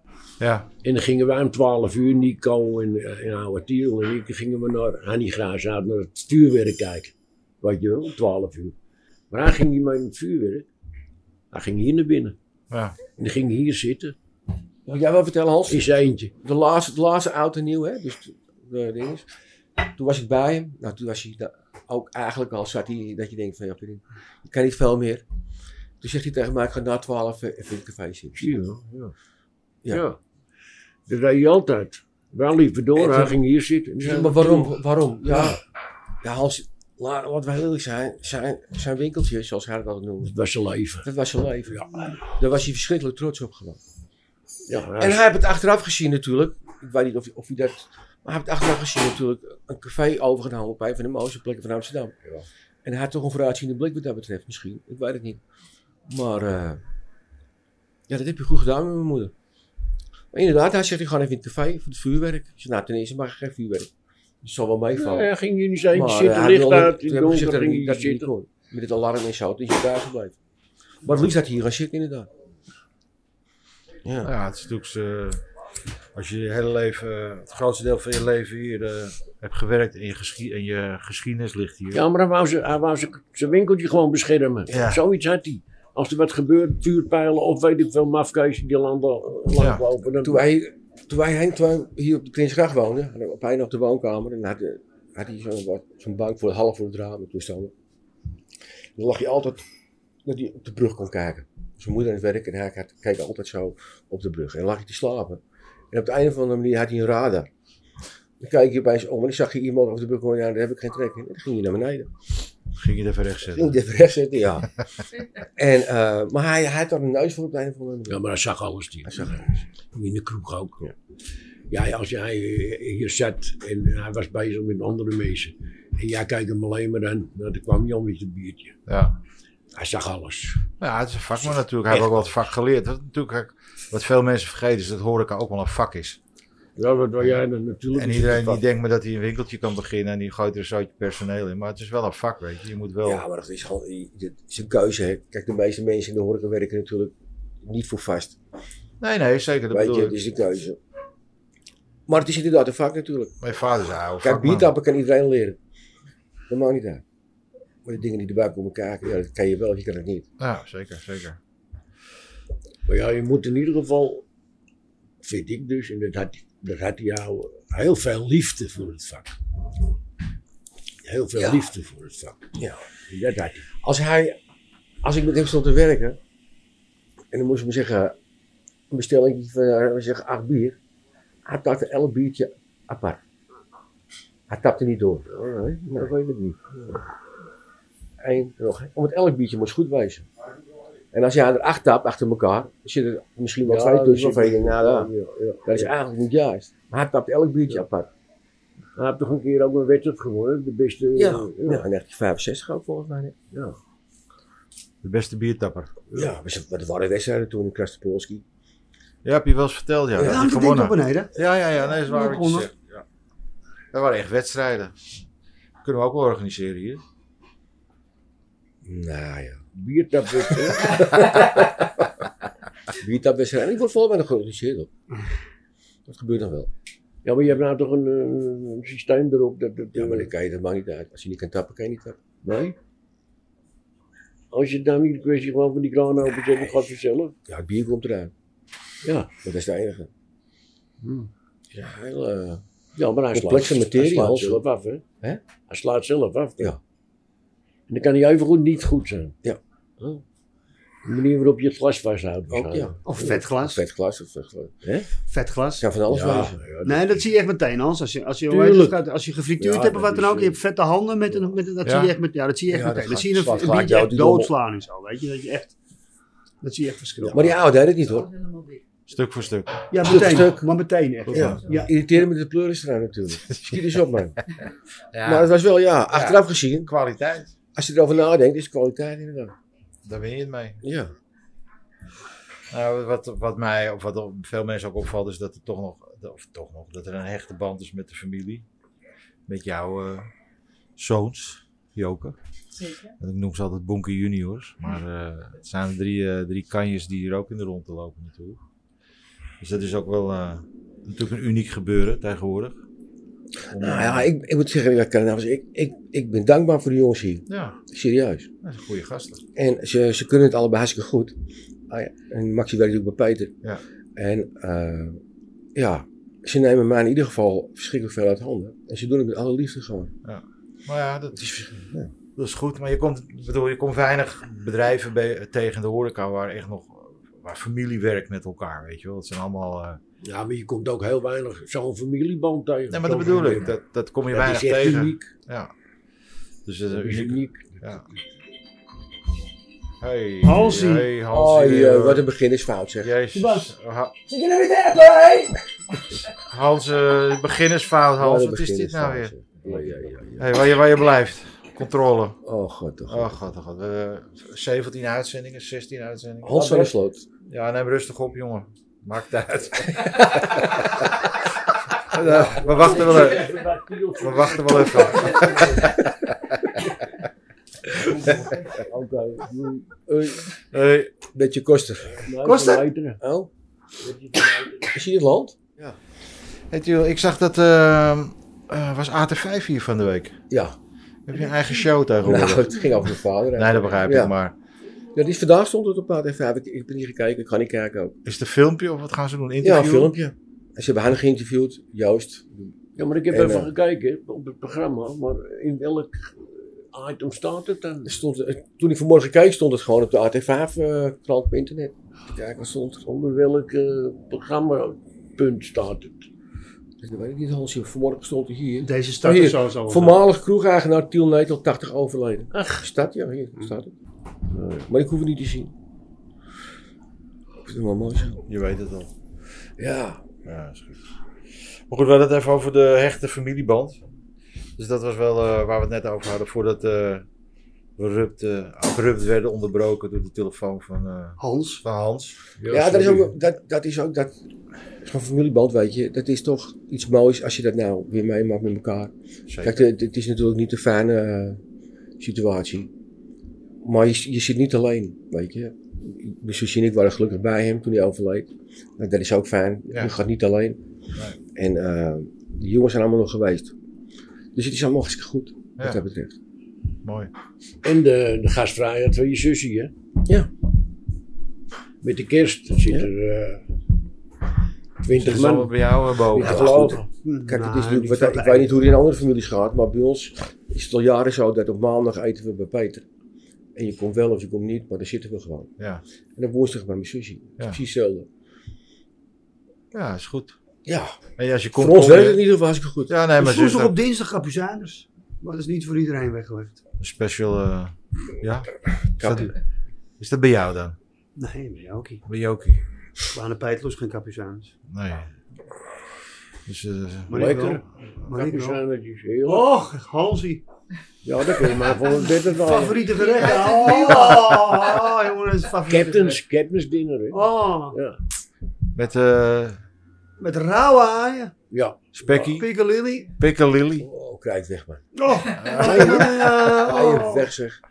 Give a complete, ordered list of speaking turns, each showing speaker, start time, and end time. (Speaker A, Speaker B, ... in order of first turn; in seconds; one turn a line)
Speaker A: 0.4-0.7
Speaker B: 0.8-8.7
Speaker B: 9.3-10.7
Speaker B: 11.5-12.3
Speaker A: 12.7-13.0
Speaker B: 13.2-14.1
Speaker C: 14.8-19.2
Speaker B: 15.7-16.3
Speaker C: 19.9-25.2
Speaker C: 26.0-28.6
Speaker B: 28.4-29.1
Speaker B: 29.9-30.2
Speaker B: 31.1-34.7
Speaker C: 33.0-33.4
Speaker C: 34.0-35.6
Speaker B: 35.2-35.6
Speaker C: 36.2-40.3
Speaker B: 40.2-41.1
Speaker C: 41.0-41.8
Speaker B: 41.7-42.2
Speaker C: 42.4-43.8
Speaker B: 44.7-45.3
Speaker C: 45.0-52.1
Speaker C: 52.8-55.4
Speaker C: 56.1-56.8
Speaker C: 58.1-59.3
Speaker C: 60.3-63.9
Speaker C: 64.4-65.3
Speaker B: 65.0-68.3
Speaker C: 65.9-70.3
Speaker C: 71.0-72.3
Speaker C: 74.0-74.3
Speaker A: 74.2-75.4
Speaker A: 76.1-82.0
Speaker B: 81.9-90.4
Speaker A: 84.7-85.0
Speaker A: 89.6-89.8
Speaker C: 90.2-97.7
Speaker C: 99.0-99.6
Speaker C: 100.2-107.5
Speaker C: 108.4-112.1
Speaker A: 112.7-113.8
Speaker C: 113.5-114.7
Speaker C: 115.5-118.2
Speaker B: 118.1-120.8
Speaker C: 119.0-119.5
Speaker B: 121.7-128.8
Speaker A: 128.9-129.2
Speaker B: 129.7-130.7
Speaker A: 130.8-136.2
Speaker B: 136.8-138.6
Speaker A: 137.9-143.2
Speaker C: 143.0-148.4
Speaker A: 149.0-150.2
Speaker C: 149.7-150.8
Speaker C: 152.1-153.3
Speaker A: 153.4-154.7
Speaker C: 154.2-155.6
Speaker C: 156.5-157.0
Speaker C: 157.8-160.3
Speaker A: 160.4-161.4
Speaker B: 162.9-164.2
Speaker B: 165.2-169.3
Speaker B: 171.0-173.7
Speaker C: 171.4-171.7
Speaker C: 172.6-172.8
Speaker C: 173.8-174.4
Speaker C: 175.0-176.2
Speaker C: 177.3-178.1
Speaker C: 178.9-180.8
Speaker C: 181.4-183.2
Speaker C: 184.5-185.3
Speaker B: 185.3-186.8
Speaker C: 185.9-186.1
Speaker C: 188.2-190.3
Speaker C: 191.1-195.1
Speaker B: 193.7-195.9
Speaker C: 195.6-198.1
Speaker B: 198.9-201.8
Speaker C: 201.2-203.3
Speaker B: 203.5-203.8
Speaker A: 205.0-205.9
Speaker C: 206.1-208.4
Speaker A: 209.2-213.0
Speaker C: 210.2-210.4
Speaker D: 210.2-211.3
Speaker D: 211.9-212.7
Speaker A: 213.9-215.0
Speaker A: 215.8-217.0
Speaker C: 218.8-219.6
Speaker B: 219.7-221.2
Speaker C: 220.7-222.1
Speaker C: 222.9-224.9
Speaker C: 226.1-226.7
Speaker B: 227.2-230.3
Speaker C: 229.9-232.2
Speaker B: 232.4-232.7
Speaker B: 234.5-237.3
Speaker C: 237.5-238.3
Speaker B: 239.0-239.3
Speaker C: 239.4-240.1
Speaker B: 241.0-241.3
Speaker C: 241.7-242.6
Speaker B: 242.9-245.0
Speaker C: 243.3-244.6
Speaker B: 245.7-246.8
Speaker B: 247.9-249.3
Speaker B: 251.0-253.4
Speaker C: 252.5-255.1
Speaker D: 253.1-253.8
Speaker D: 255.3-255.8
Speaker C: 255.8-256.6
Speaker B: 256.1-257.3
Speaker D: 256.8-265.7
Speaker B: 258.5-259.0
Speaker B: 259.6-260.6
Speaker A: 261.8-262.1
Speaker C: 262.7-264.5
Speaker D: 266.6-267.5
Speaker C: 267.3-268.3
Speaker E: 268.1-268.8
Speaker A: 269.1-269.8
Speaker D: 269.9-271.9
Speaker C: 270.0-270.7
Speaker C: 271.3-274.4
Speaker A: 271.3-271.6
Speaker A: 273.5-273.8
Speaker A: 275.1-275.5
Speaker C: 275.2-276.9
Speaker A: 276.1-277.5
Speaker C: 277.7-279.5
Speaker A: 280.0-280.8
Speaker C: 280.8-281.1
Speaker A: 282.7-288.6
Speaker A: 289.5-290.3
Speaker A: 291.0-292.4
Speaker E: 292.7-293.1
Speaker A: 293.2-298.6
Speaker A: 299.6-302.8
Speaker A: 303.7-304.3
Speaker C: 303.7-308.5
Speaker A: 307.5-307.8
Speaker A: 308.6-309.4
Speaker C: 309.5-311.3
Speaker C: 311.9-313.6
Speaker C: 314.1-315.2
Speaker C: 315.7-320.1
Speaker A: 320.2-321.5
Speaker C: 321.3-322.1
Speaker A: 322.3-330.0
Speaker B: 330.2-333.8
Speaker A: 332.9-335.7
Speaker B: 334.3-335.3
Speaker A: 336.6-338.0
Speaker B: 336.9-338.1
Speaker A: 340.0-342.2
Speaker D: 340.4-341.1
Speaker C: 341.3-343.1
Speaker A: 343.0-344.1
Speaker D: 343.3-343.7
Speaker D: 344.2-345.6
Speaker A: 346.4-349.3
Speaker C: 348.2-350.6
Speaker B: 349.7-350.0
Speaker A: 350.4-352.4
Speaker C: 352.4-353.4
Speaker A: 353.1-356.8
Speaker C: 356.4-357.2
Speaker A: 357.4-360.9
Speaker C: 359.8-360.9
Speaker A: 362.1-363.6
Speaker B: 362.3-366.0
Speaker A: 364.2-366.6
Speaker B: 367.9-370.4
Speaker A: 370.7-371.1
Speaker C: 371.3-372.3
Speaker B: 372.1-373.2
Speaker D: 372.4-372.9
Speaker C: 373.2-373.5
Speaker B: 374.0-375.0
Speaker C: 374.9-376.0
Speaker A: 376.7-380.4
Speaker C: 380.5-380.8
Speaker A: 381.2-382.9
Speaker C: 382.2-384.3
Speaker A: 383.6-384.5
Speaker C: 385.1-388.2
Speaker A: 388.2-390.1
Speaker C: 389.6-392.7
Speaker B: 393.0-398.2
Speaker C: 393.3-393.7
Speaker C: 398.0-403.1
Speaker B: 403.1-406.2
Speaker C: 407.0-413.9
Speaker D: 408.8-410.2
Speaker B: 412.5-412.8
Speaker B: 414.5-414.9
Speaker C: 414.9-415.7
Speaker C: 417.6-418.4
Speaker A: 418.4-419.1
Speaker C: 419.8-420.3
Speaker A: 420.4-421.0
Speaker A: 421.6-424.0
Speaker A: 424.8-427.2
Speaker A: 428.0-432.3
Speaker D: 431.4-431.8
Speaker B: 432.6-433.3
Speaker C: 432.7-434.4
Speaker C: 435.0-441.6
Speaker A: 439.5-439.9
Speaker C: 442.2-442.9
Speaker C: 443.8-450.8
Speaker A: 449.9-450.1
Speaker C: 451.5-453.7
Speaker C: 454.5-456.3
Speaker A: 457.0-457.3
Speaker B: 457.8-459.9
Speaker B: 462.0-463.6
Speaker B: 465.0-467.0
Speaker A: 465.1-466.7
Speaker C: 466.4-473.0
Speaker D: 466.5-468.9
Speaker C: 473.8-475.7
Speaker C: 476.4-478.3
Speaker A: 479.9-480.6
Speaker C: 480.9-481.2
Speaker A: 481.4-482.5
Speaker C: 481.8-483.1
Speaker A: 483.1-483.9
Speaker D: 483.4-486.8
Speaker A: 487.0-489.6
Speaker C: 489.1-489.5
Speaker A: 490.2-491.0
Speaker D: 491.4-492.2
Speaker A: 492.2-492.8
Speaker D: 493.3-494.7
Speaker A: 494.9-495.3
Speaker A: 496.6-497.6
Speaker D: 497.3-498.8
Speaker B: 497.3-499.7
Speaker D: 499.5-500.6
Speaker B: 501.2-504.4
Speaker D: 502.0-506.4
Speaker E: 503.2-504.4
Speaker B: 505.9-508.2
Speaker D: 507.3-508.0
Speaker A: 508.9-509.8
Speaker D: 510.4-511.5
Speaker B: 511.7-512.0
Speaker A: 512.1-512.7
Speaker D: 512.3-513.3
Speaker A: 513.4-514.1
Speaker C: 514.0-515.1
Speaker D: 515.1-517.5
Speaker A: 515.5-516.3
Speaker C: 515.6-517.8
Speaker B: 515.8-516.3